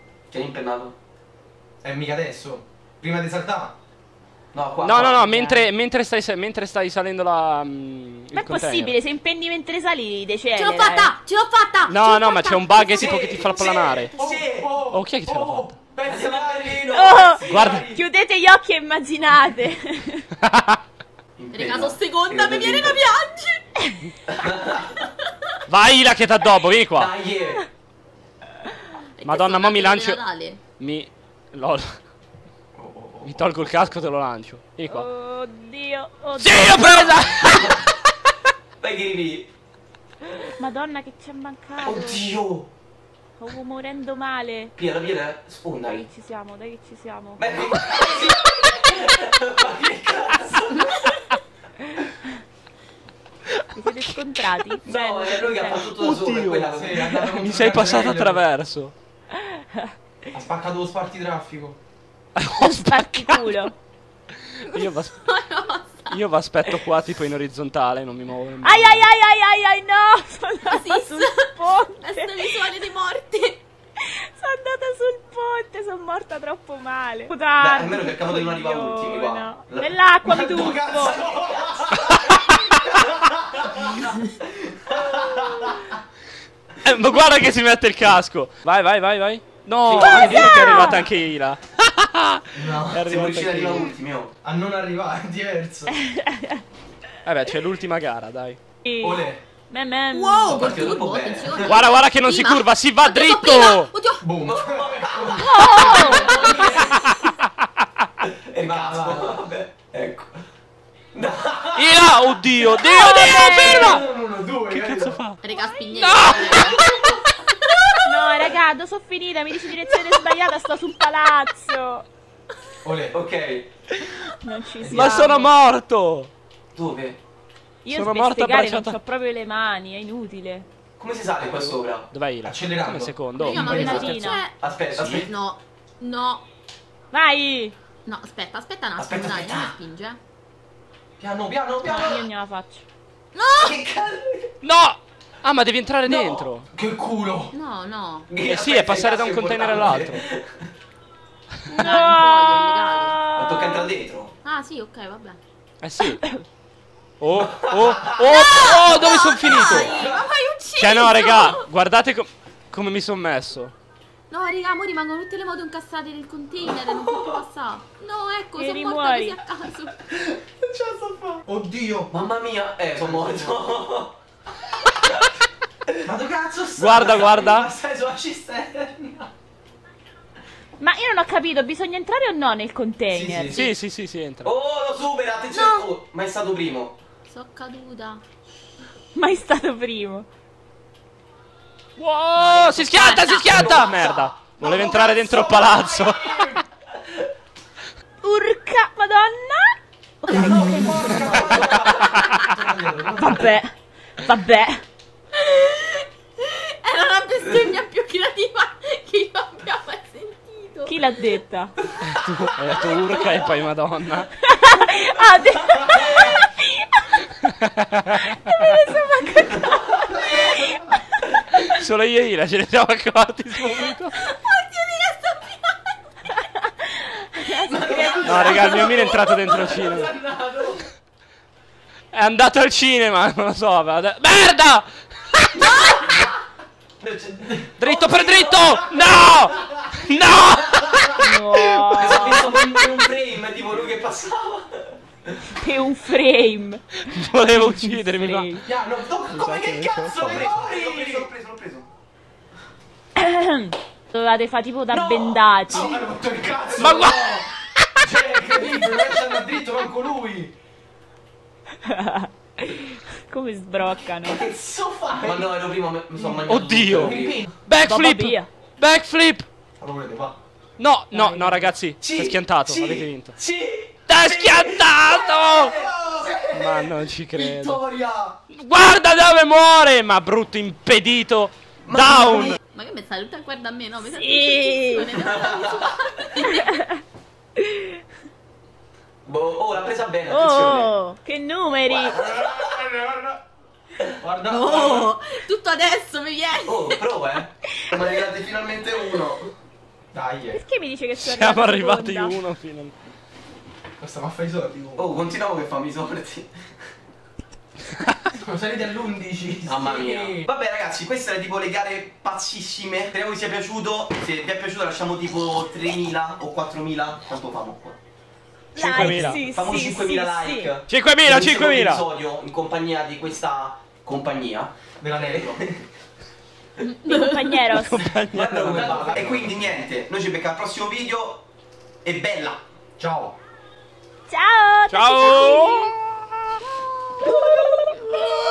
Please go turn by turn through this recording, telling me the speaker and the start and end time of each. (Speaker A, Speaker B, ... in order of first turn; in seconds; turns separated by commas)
Speaker A: 0.3-0.9, Speaker B: 1.8-3.8, Speaker A: 4.5-5.3, Speaker C: 4.8-8.9, Speaker D: 5.2-5.6, Speaker D: 8.3-11.2, Speaker E: 10.5-13.2, Speaker C: 11.9-14.1, Speaker A: 12.8-14.7, Speaker B: 14.2-18.0, Speaker C: 14.9-15.7, Speaker A: 16.0-17.4, Speaker D: 16.9-20.3, Speaker C: 17.4-17.9, Speaker C: 20.4-20.8, Speaker A: 21.4-23.0, Speaker E: 21.5-23.7, Speaker A: 24.3-25.0, Speaker C: 25.7-27.1, Speaker A: 26.9-27.6, Speaker E: 29.2-30.6, Speaker C: 29.2-30.2, Speaker C: 30.8-32.0, Speaker B: 32.7-33.6, Speaker C: 33.2-35.0, Speaker D: 34.9-37.3, Speaker C: 36.4-37.9, Speaker A: 37.5-37.8, Speaker A: 38.8-39.5, Speaker D: 40.3-42.3, Speaker A: 41.8-42.7, Speaker D: 43.4-44.7, Speaker A: 44.8-46.1, Speaker D: 45.9-47.7, Speaker A: 47.4-51.2, Speaker B: 48.0-48.2, Speaker C: 53.5-54.1, Speaker D: 53.7-55.9, Speaker A: 54.8-57.5, Speaker C: 55.9-56.7, Speaker B: 56.7-58.5, Speaker C: 57.3-58.9, Speaker D: 59.6-59.8, Speaker B: 60.3-61.8, Speaker C: 62.4-63.5, Speaker D: 62.6-63.7, Speaker C: 64.6-65.2, Speaker E: 64.7-66.2, Speaker C: 66.1-69.0, Speaker D: 68.6-72.8, Speaker E: 70.7-73.6, Speaker D: 74.0-81.2, Speaker A: 77.6-80.0, Speaker B: 80.2-86.0, Speaker A: 81.0-82.2, Speaker C: 82.3-82.8, Speaker C: 86.8-93.9, Speaker D: 89.9-91.0, Speaker A: 89.9-90.5, Speaker E: 90.4-90.8, Speaker B: 92.5-93.0, Speaker A: 93.0-94.3, Speaker B: 94.4-96.0, Speaker D: 96.0-96.6, Speaker C: 97.2-98.6, Speaker D: 98.8-100.8, Speaker B: 99.0-99.4, Speaker E: 100.1-104.3, Speaker A: 100.5-101.8, Speaker C: 101.6-103.9, Speaker B: 104.2-106.8, Speaker A: 104.4-107.1, Speaker D: 105.3-106.7, Speaker E: 105.6-107.0, Speaker C: 107.0-107.3, Speaker A: 108.2-110.3, Speaker B: 108.6-109.4, Speaker A: 111.1-112.0, Speaker C: 111.7-114.0, Speaker D: 112.7-114.0, Speaker B: 113.6-115.2, Speaker C: 114.7-117.2, Speaker E: 115.4-118.0, Speaker D: 118.0-122.0, Speaker B: 122.8-123.2, Speaker A: 123.1-123.7, Speaker D: 124.2-125.5, Speaker B: 124.8-125.3, Speaker C: 124.9-126.3, Speaker A: 126.7-127.2, Speaker D: 127.8-130.7, Speaker C: 127.9-129.0, Speaker A: 131.0-132.1, Speaker C: 131.5-133.8, Speaker B: 132.4-134.1, Speaker E: 133.4-136.4, Speaker D: 133.4-134.4, Speaker A: 133.7-135.3, Speaker D: 137.1-137.7, Speaker E: 138.0-140.2, Speaker A: 139.0-139.7, Speaker A: 141.3-142.2, Speaker D: 141.8-142.8, Speaker E: 143.3-143.8, Speaker A: 143.6-144.5, Speaker C: 144.6-146.7, Speaker A: 146.0-146.5, Speaker B: 146.7-147.5, Speaker E: 147.5-148.3, Speaker A: 148.3-150.6, Speaker C: 148.3-150.2, Speaker E: 151.6-153.2, Speaker D: 151.8-153.9, Speaker A: 153.3-154.3, Speaker E: 154.4-155.4, Speaker C: 155.8-156.2, Speaker D: 156.1-156.4, Speaker C: 157.2-159.9, Speaker A: 157.5-158.3, Speaker E: 158.2-161.7, Speaker C: 160.8-163.7, Speaker E: 164.3-170.0, Speaker D: 168.6-169.4, Speaker B: 170.1-172.1, Speaker A: 172.1-174.1, Speaker B: 172.9-173.7, Speaker B: 176.0-179.3, Speaker C: 176.8-177.7, Speaker A: 176.9-177.4, Speaker D: 180.8-183.7, Speaker B: 183.1-183.6, Speaker C: 183.5-184.5, Speaker A: 184.4-187.0, Speaker E: 185.5-185.9, Speaker E: 187.3-188.2, Speaker D: 189.1-190.3, Speaker C: 192.0-196.4, Speaker E: 192.4-193.8, Speaker A: 193.4-194.3, Speaker B: 194.6-196.6, Speaker D: 198.2-201.4, Speaker B: 200.3-203.5, Speaker A: 201.1-202.0, Speaker D: 203.1-204.8, Speaker E: 205.3-211.2, Speaker D: 210.8-211.7, Speaker C: 212.1-214.3, Speaker E: 212.9-213.3, Speaker D: 214.4-217.2, Speaker C: 217.4-218.3, Speaker D: 218.2-220.8, Speaker C: 221.6-224.2, Speaker E: 224.2-225.9, Speaker D: 226.4-229.2, Speaker E: 227.5-227.9, Speaker B: 227.7-230.8, Speaker C: 228.2-230.1, Speaker C: 232.1-235.9, Speaker A: 235.6-236.3, Speaker A: 237.0-238.8, Speaker C: 237.8-242.4, Speaker D: 241.2-242.5, Speaker A: 241.9-245.0, Speaker D: 245.5-248.6, Speaker C: 247.0-248.6, Speaker B: 248.7-251.3, Speaker C: 249.3-250.5, Speaker A: 249.6-251.9, Speaker D: 253.2-256.0, Speaker A: 254.9-256.0, Speaker B: 255.7-257.5, Speaker C: 256.8-257.4, Speaker B: 258.0-260.5, Speaker D: 261.8-264.5, Speaker B: 264.2-265.5, Speaker A: 265.2-267.4, Speaker C: 266.4-269.5, Speaker B: 266.9-267.5, Speaker D: 267.8-268.5, Speaker B: 269.8-270.4, Speaker C: 270.8-273.3, Speaker D: 271.1-271.7, Speaker A: 272.0-276.4, Speaker C: 274.1-275.7, Speaker B: 275.6-276.8, Speaker C: 276.5-277.8, Speaker B: 277.4-278.4, Speaker C: 278.5-282.6, Speaker A: 281.9-282.6, Speaker B: 281.9-282.5, Speaker E: 282.6-286.7, Speaker D: 284.1-285.2, Speaker D: 286.5-287.0, Speaker D: 287.6-287.9, Speaker A: 289.2-290.9, Speaker D: 290.3-292.2, Speaker A: 291.9-292.8, Speaker B: 292.1-293.4, Speaker B: 294.2-295.1, Speaker E: 294.5-297.0, Speaker A: 296.6-299.5, Speaker B: 300.1-300.6, Speaker D: 300.5-302.4, Speaker C: 301.2-302.9, Speaker B: 304.0-305.1, Speaker A: 304.9-306.5, Speaker B: 308.3-310.5, Speaker A: 309.6-318.0, Speaker D: 318.7-320.7, Speaker C: 318.7-319.6, Speaker A: 318.9-325.8, Speaker C: 320.9-322.0, Speaker B: 325.0-325.6, Speaker D: 327.0-328.1, Speaker C: 327.7-329.2, Speaker A: 328.3-331.4, Speaker B: 328.6-329.7, Speaker A: 332.0-332.6, Speaker B: 333.0-333.4, Speaker D: 334.3-335.9, Speaker C: 334.9-336.3